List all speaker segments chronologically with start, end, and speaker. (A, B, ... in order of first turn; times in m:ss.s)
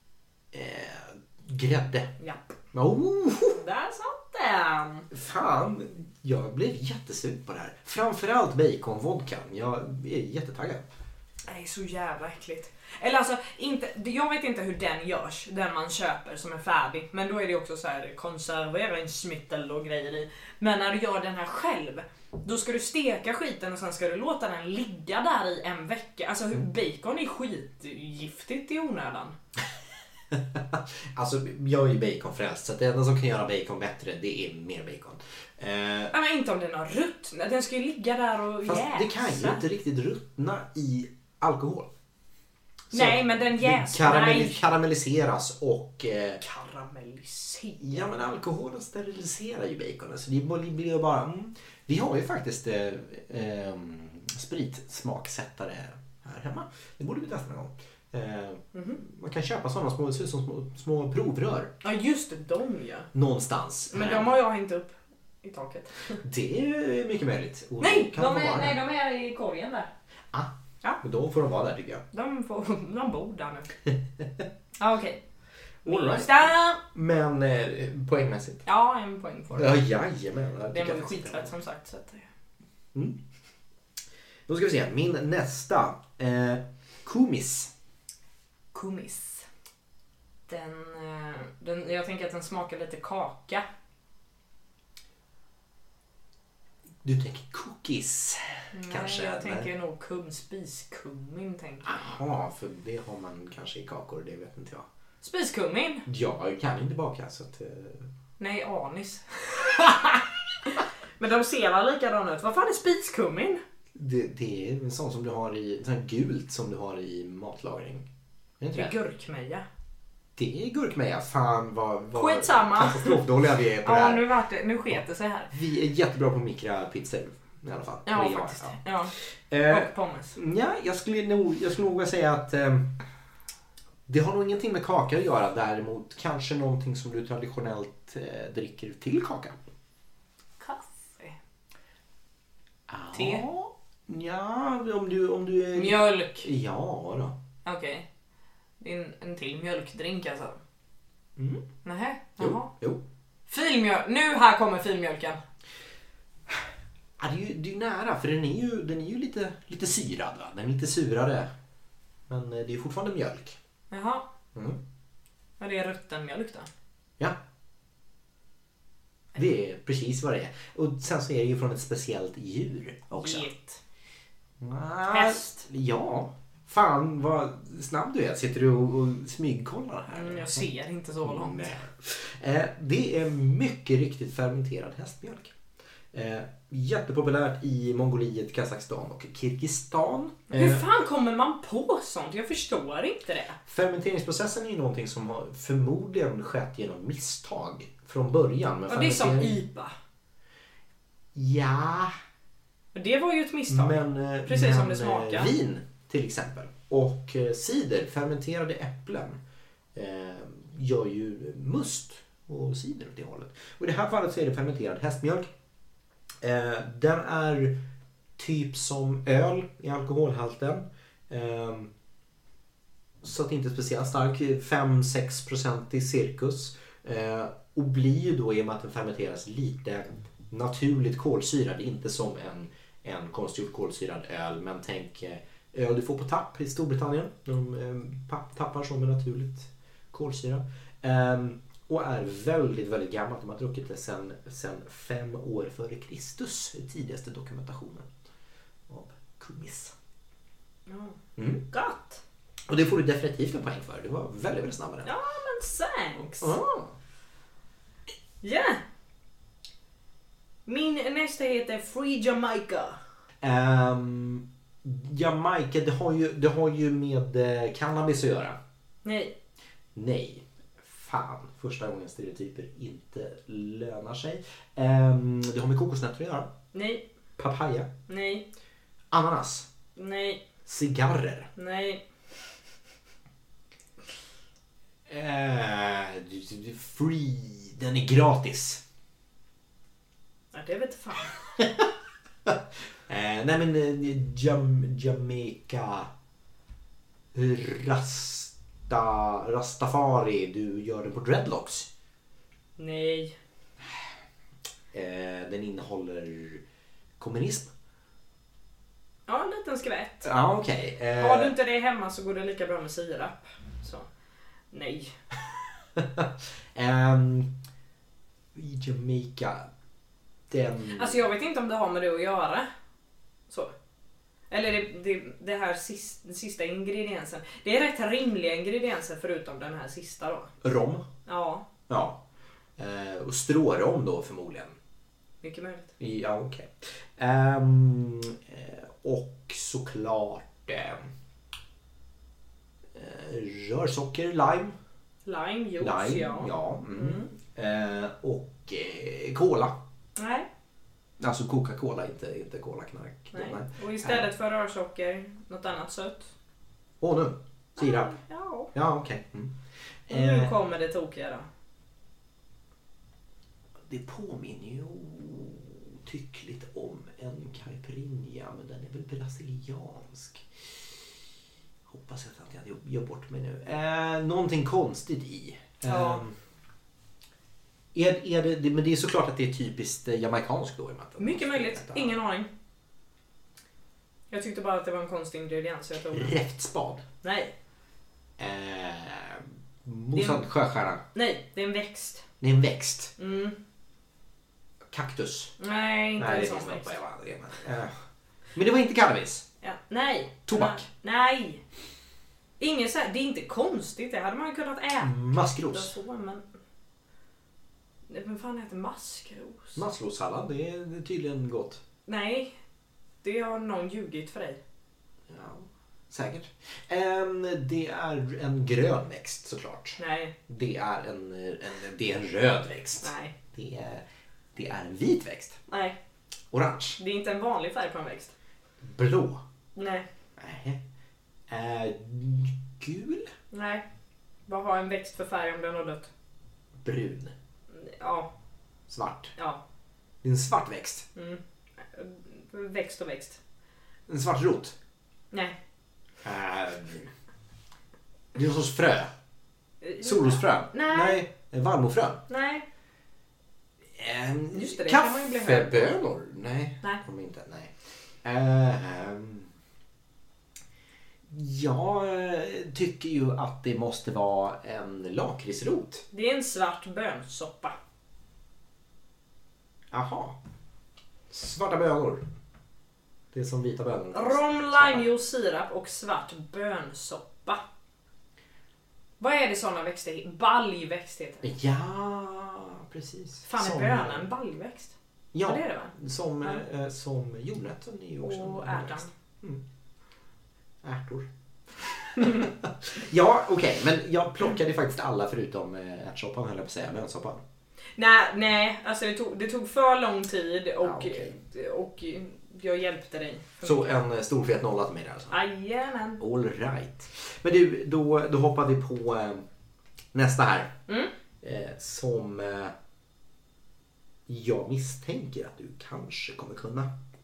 0:00.5-0:02.1 A
0:02.2-0:02.5 B
0:02.7-0:03.6 A
0:03.5-0:05.1 B
0:05.1-0:10.8 A
0:11.5-0:29.4 B
0:30.3-0:36.1 A
0:36.1-0:39.6 B
0:38.6-0:41.9 A
0:42.9-0:44.6 B
0:42.9-0:46.4 A
0:46.4-0:48.1 B
0:47.8-1:01.7 A
0:58.7-0:59.0 B
1:01.8-1:03.1 B
1:03.1-1:04.4 A
1:03.9-1:06.2 B
1:06.2-1:08.8 A
1:07.8-1:09.9 B
1:10.3-1:12.0 A
1:12.1-1:13.7 B
1:14.8-1:15.2 B
1:15.8-1:16.8 B
1:15.9-1:18.6 A
1:18.6-1:19.8 B
1:19.5-1:21.5 A
1:20.7-1:22.3 B
1:24.5-1:27.7 A
1:28.7-1:29.5 B
1:30.5-1:33.7 B
1:37.0-1:39.7 A
1:38.7-1:41.9 B
1:41.8-1:44.9 A
1:45.2-1:46.1 B
1:46.1-1:48.1 A
1:48.4-1:53.6 B
1:54.0-1:58.1 A
1:58.6-1:59.0 A
1:58.7-1:59.7 B
2:00.4-2:04.2 A
2:02.2-2:03.2 B
2:03.8-2:05.5 B
2:05.5-2:08.8 A
2:08.1-2:09.1 B
2:09.5-2:12.9 A
2:09.7-2:10.4 B
2:14.1-2:19.6 A
2:20.6-2:21.4 B
2:22.9-2:27.4 A
2:23.1-2:23.5 B
2:25.7-2:26.5 B
2:27.6-2:28.1 B
2:28.8-2:30.6 B
2:31.4-2:31.6 A
2:31.8-2:32.7 B
2:32.4-2:33.0 A
2:33.5-2:35.4 B
2:37.2-2:41.5 A
2:42.3-2:43.6 A
2:43.9-2:44.3 B
2:44.5-2:44.8 A
2:45.6-2:46.7 B
2:49.4-2:53.5 A
2:53.2-2:53.8 B
2:54.6-3:00.7 A
2:55.1-2:55.6 B
3:00.1-3:01.8 B
3:01.2-3:05.5 A
3:06.1-3:10.8 A
3:10.5-3:13.6 B
3:13.7-3:19.6 A
3:18.9-3:20.0 B
3:21.3-3:22.1 A
3:22.9-3:25.5 B
3:23.7-3:29.4 A
3:29.9-3:35.5 A
3:36.4-3:37.8 A
3:38.4-3:41.9 A
3:43.2-4:08.1 A
4:08.9-4:09.9 A
4:10.9-4:11.2 B
4:11.4-4:11.6 A
4:11.7-4:12.2 B
4:12.7-4:15.1 A
4:15.0-4:16.6 B
4:16.4-4:17.0 A
4:18.4-4:18.8 B
4:20.7-4:23.0 B
4:23.4-4:28.6 A
4:29.0-4:29.3 B
4:30.0-4:36.5 A
4:36.7-4:37.0 B
4:37.4-4:37.9 A
4:38.1-4:38.5 B
4:39.1-4:39.7 A
4:40.0-4:40.4 B
4:40.7-4:41.5 A
4:41.6-4:42.0 B
4:45.1-4:48.8 A
4:50.5-4:51.4 B
4:52.4-4:56.1 A
4:57.3-5:01.9 A
5:02.8-5:03.4 B
5:04.9-5:06.6 A
5:07.2-5:07.7 A
5:09.3-5:10.3 B
5:10.2-5:11.5 A
5:11.2-5:14.1 B
5:14.7-5:15.2 B
5:16.0-5:17.5 A
5:18.5-5:19.7 A
5:20.5-5:21.2 A
5:20.9-5:22.7 B
5:23.5-5:23.7 B
5:24.5-5:30.5 B
5:30.6-5:31.1 A
5:31.3-5:31.7 B
5:31.9-5:32.2 A
5:32.8-5:34.8 A
5:35.4-5:35.9 B
5:36.0-5:41.0 A
5:42.9-5:44.8 A
5:45.2-5:47.3 B
5:45.8-5:49.8 A
5:50.2-5:50.5 B
5:51.2-5:54.3 A
5:53.3-5:56.3 B
5:57.0-5:58.2 A
5:57.8-5:58.7 B
5:58.7-5:59.5 A
6:00.1-6:00.5 A
6:00.1-6:01.5 B
6:03.9-6:10.5 A
6:11.9-6:16.4 A
6:15.8-6:16.2 B
6:17.9-6:22.2 A
6:21.2-6:22.5 B
6:24.3-6:26.3 B
6:26.1-6:27.0 A
6:27.2-6:27.5 B
6:28.4-6:31.0 A
6:30.2-6:30.4 B
6:31.1-6:32.2 B
6:32.4-6:33.1 A
6:33.2-6:33.6 B
6:34.9-6:35.5 A
6:35.6-6:37.0 B
6:36.2-6:38.0 A
6:38.6-6:39.4 A
6:39.6-6:41.6 B
6:40.5-6:40.9 A
6:42.6-6:46.4 B
6:45.0-6:45.9 A
6:48.1-6:49.8 B
6:49.8-6:51.8 A
6:52.1-6:52.5 B
6:53.2-6:54.6 B
6:55.3-7:04.0 A
7:00.0-7:00.3 B
7:03.0-7:03.3 B
7:04.6-7:05.6 A
7:05.7-7:06.0 B
7:06.5-7:07.0 A
7:07.0-7:08.3 B
7:08.8-7:09.4 A
7:09.8-7:10.1 B
7:10.4-7:10.8 A
7:11.5-7:13.3 A
7:13.5-7:13.8 B
7:14.5-7:16.1 B
7:16.8-7:17.3 A
7:17.7-7:18.3 B
7:18.9-7:19.3 A
7:19.4-7:19.6 B
7:20.2-7:21.1 A
7:21.2-7:23.4 B
7:24.1-7:24.8 A
7:26.2-7:27.1 A
7:28.3-7:29.1 A
7:29.8-7:31.2 B
7:30.0-7:32.2 A
7:32.3-7:32.7 B
7:34.0-7:39.5 A
7:34.5-7:35.9 B
7:41.3-7:46.0 A
7:46.1-7:47.8 B
7:49.9-7:50.4 A
7:51.3-7:52.2 A
7:53.3-7:55.1 A
7:54.1-7:57.6 B
7:59.2-8:01.5 B
8:01.4-8:04.3 A
8:03.5-8:06.6 B
8:05.3-8:09.6 A
8:08.2-8:09.1 B
8:10.8-8:17.4 A
8:18.0-8:23.9 B
8:20.8-8:21.4 A
8:23.6-8:25.4 A
8:25.3-8:26.2 B
8:26.2-8:29.4 A
8:30.1-8:30.7 A
8:31.4-8:32.7 A
8:34.3-8:36.9 A